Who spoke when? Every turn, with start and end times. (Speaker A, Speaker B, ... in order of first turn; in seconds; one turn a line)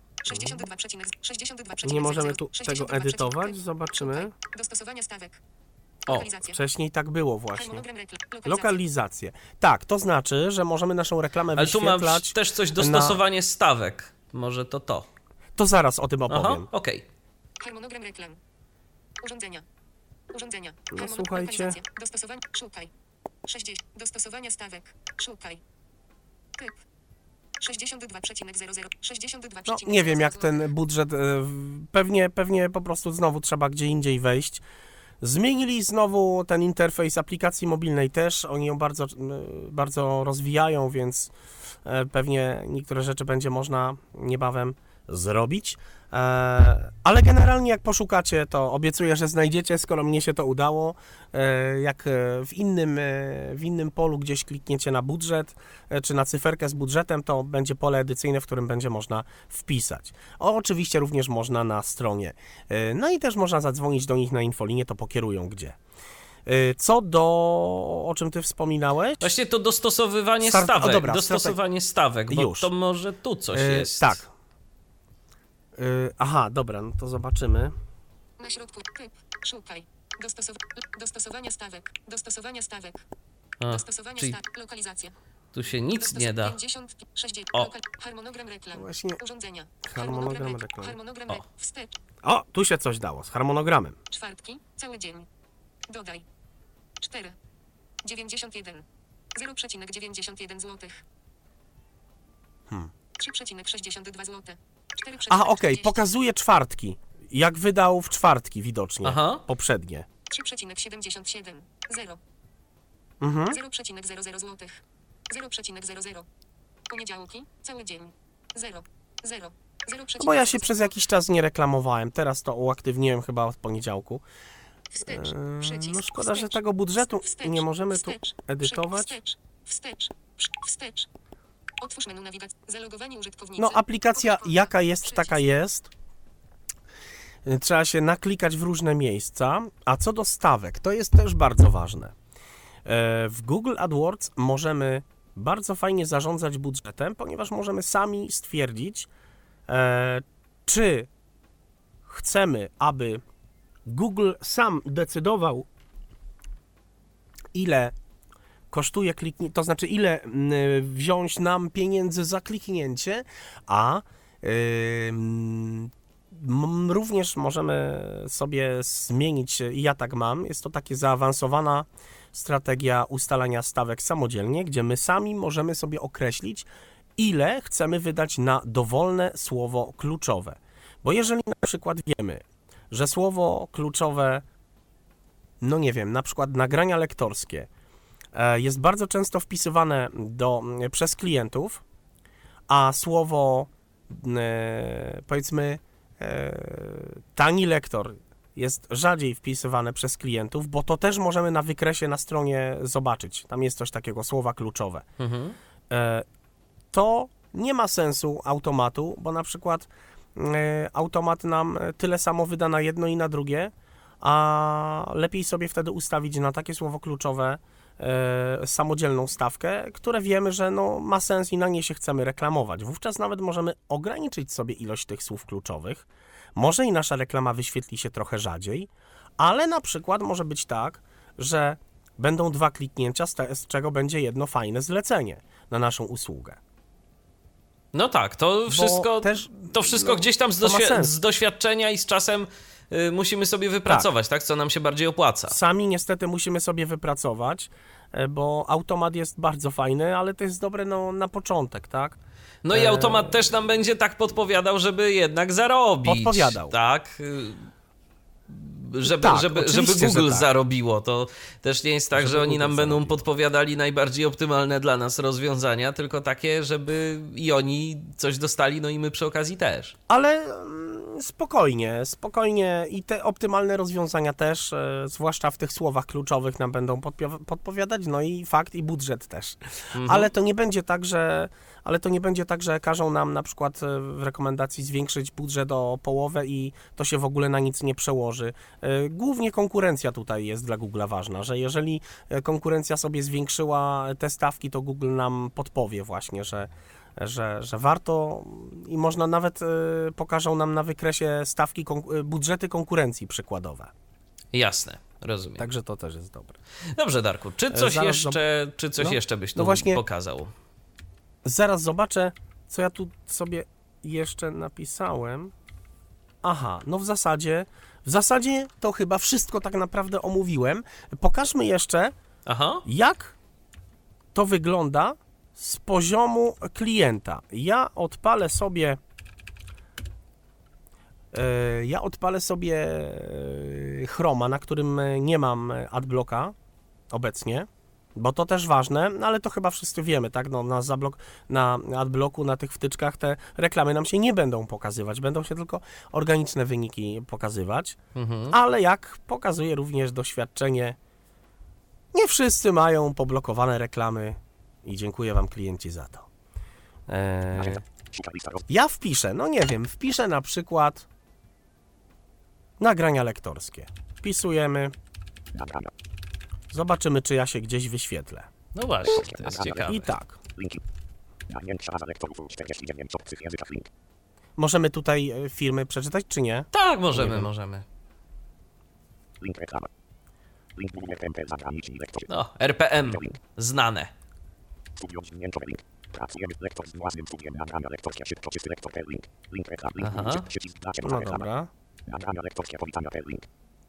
Speaker A: 0.2-5.4
Speaker B: 0.3-0.6
Speaker B: 1.8-4.3
Speaker A: 6.1-6.6
Speaker B: 6.5-7.8
Speaker A: 7.5-8.8
Speaker B: 8.4-13.2
Speaker C: 11.6-15.1
Speaker B: 15.6-16.6
Speaker C: 16.3-17.0
Speaker A: 17.6-18.4
Speaker A: 19.2-19.6
Speaker A: 20.3-22.9
Speaker B: 20.9-21.8
Speaker A: 23.4-25.6
Speaker A: 27.6-30.6
Speaker B: 29.6-34.6
Speaker B: 35.2-41.3
Speaker B: 41.8-65.8
Speaker B: 66.5-69.3
Speaker C: 69.2-74.2
Speaker B: 70.4-71.6
Speaker B: 72.3-72.7
Speaker B: 73.5-74.3
Speaker B: 75.7-77.7
Speaker A: 78.4-83.0
Speaker C: 83.6-84.4
Speaker A: 83.7-85.1
Speaker C: 85.5-86.6
Speaker A: 85.9-92.0
Speaker B: 88.7-89.2
Speaker B: 89.9-91.0
Speaker B: 92.2-94.0
Speaker A: 94.1-95.3
Speaker A: 95.9-96.2
Speaker A: 97.0-97.4
Speaker A: 98.0-101.0
Speaker A: 103.2-106.0
Speaker B: 105.3-110.1
Speaker C: 109.0-109.4
Speaker A: 110.3-112.2
Speaker B: 113.2-113.6
Speaker A: 113.5-116.2
Speaker A: 116.9-120.9
Speaker B: 120.2-124.2
Speaker A: 124.9-131.1
Speaker B: 125.0-129.1
Speaker A: 131.8-135.4
Speaker B: 133.6-135.9
Speaker B: 137.4-142.1
Speaker B: 142.8-149.1
Speaker B: 149.7-151.1
Speaker B: 152.0-153.2
Speaker B: 153.8-155.7
Speaker B: 157.5-157.9
Speaker B: 158.7-184.4
Speaker B: 185.6-187.7
Speaker B: 188.3-191.8
Speaker B: 192.7-205.0
Speaker C: 205.2-205.6
Speaker B: 205.9-206.2
Speaker B: 206.9-236.6
Speaker C: 237.9-245.6
Speaker B: 238.7-241.1
Speaker B: 245.5-252.2
Speaker C: 252.6-257.7
Speaker B: 252.7-253.4
Speaker B: 256.0-256.7
Speaker C: 258.5-269.9
Speaker B: 259.1-260.5
Speaker B: 262.1-263.2
Speaker B: 270.1-303.9
Speaker C: 279.9-280.3
Speaker C: 304.5-305.6
Speaker B: 305.6-306.6
Speaker C: 306.9-310.5
Speaker B: 307.7-308.4
Speaker B: 309.0-310.0
Speaker B: 311.4-315.5
Speaker B: 316.4-322.1
Speaker C: 322.4-322.8
Speaker B: 322.8-323.4
Speaker B: 324.3-329.0
Speaker B: 331.3-336.5
Speaker B: 337.1-348.0
Speaker C: 348.1-348.6
Speaker B: 348.5-351.0
Speaker B: 352.1-356.3
Speaker B: 357.1-357.8
Speaker D: 357.5-358.6
Speaker B: 358.7-361.1
Speaker B: 362.8-364.9
Speaker D: 365.5-365.9
Speaker B: 366.7-368.5
Speaker C: 368.7-370.1
Speaker D: 369.1-369.9
Speaker B: 369.8-370.4
Speaker D: 370.5-370.8
Speaker D: 371.4-373.9
Speaker B: 374.6-377.5
Speaker C: 376.7-377.8
Speaker D: 379.4-379.9
Speaker D: 380.7-382.3
Speaker C: 382.3-384.1
Speaker D: 383.0-383.3
Speaker D: 385.0-391.5
Speaker C: 390.0-390.4
Speaker B: 391.0-391.7
Speaker D: 392.1-393.4